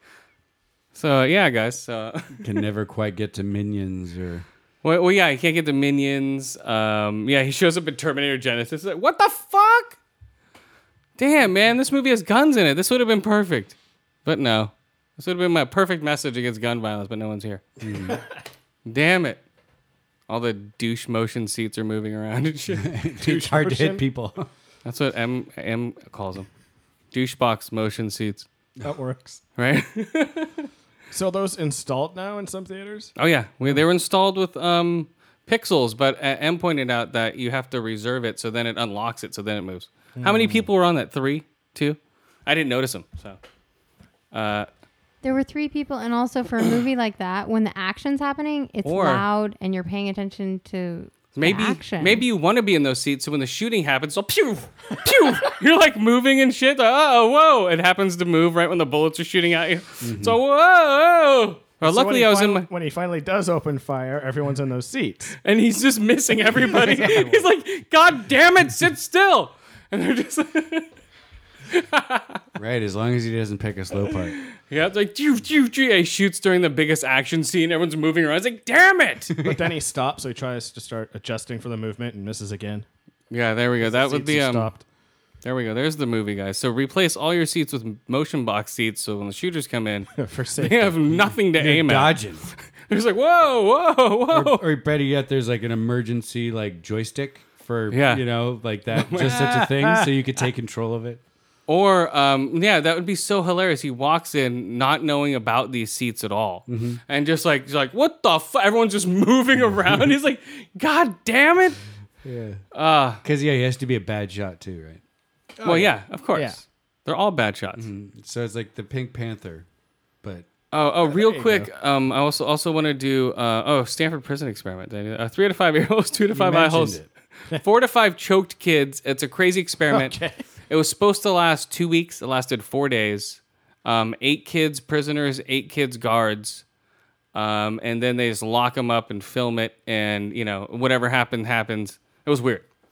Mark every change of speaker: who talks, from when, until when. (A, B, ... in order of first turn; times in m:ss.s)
0:00.9-0:02.6 A
0:02.4-0:04.4 B
0:04.8-0:10.0 A
0:11.2-0:17.6 A
0:17.8-0:18.2 B
0:18.8-0:19.4 A
0:20.3-0:22.9 A
0:22.7-0:24.5 B
0:23.2-0:24.0 C
0:24.8-0:26.5 A
0:27.1-0:28.5 A
0:28.8-0:29.4 C
0:29.6-0:30.7 A
0:31.1-0:33.1 C
0:33.2-0:43.4 A
0:40.2-0:40.7 C
0:44.3-0:44.7 A
0:45.2-0:52.2 D
0:48.8-0:49.2 A
0:51.3-1:02.7 A
1:00.0-1:00.4 B
1:01.8-1:05.4 C
1:05.4-1:10.9 A
1:06.5-1:07.5 C
1:11.7-1:12.4 A
1:12.6-1:14.4 B
1:14.1-1:19.4 A
1:19.4-1:22.8 C
1:23.3-1:24.7 A
1:23.8-1:24.8 C
1:25.4-1:34.6 A
1:30.2-1:31.0 C
1:31.6-1:32.5 B
1:34.3-1:41.2 B
1:37.9-1:38.2 A
1:38.9-1:39.5 A
1:39.1-1:40.4 C
1:41.7-1:51.8 A
1:46.7-1:47.0 B
1:52.2-1:52.6 B
1:52.7-1:53.2 A
1:53.2-1:55.0 B
1:55.6-1:56.6 C
1:55.6-1:57.9 A
1:57.8-1:59.7 B
2:00.7-2:10.2 A
2:01.0-2:01.7 C
2:06.3-2:07.1 B
2:09.9-2:10.4 C
2:10.7-2:16.6 A
2:17.3-2:22.6 A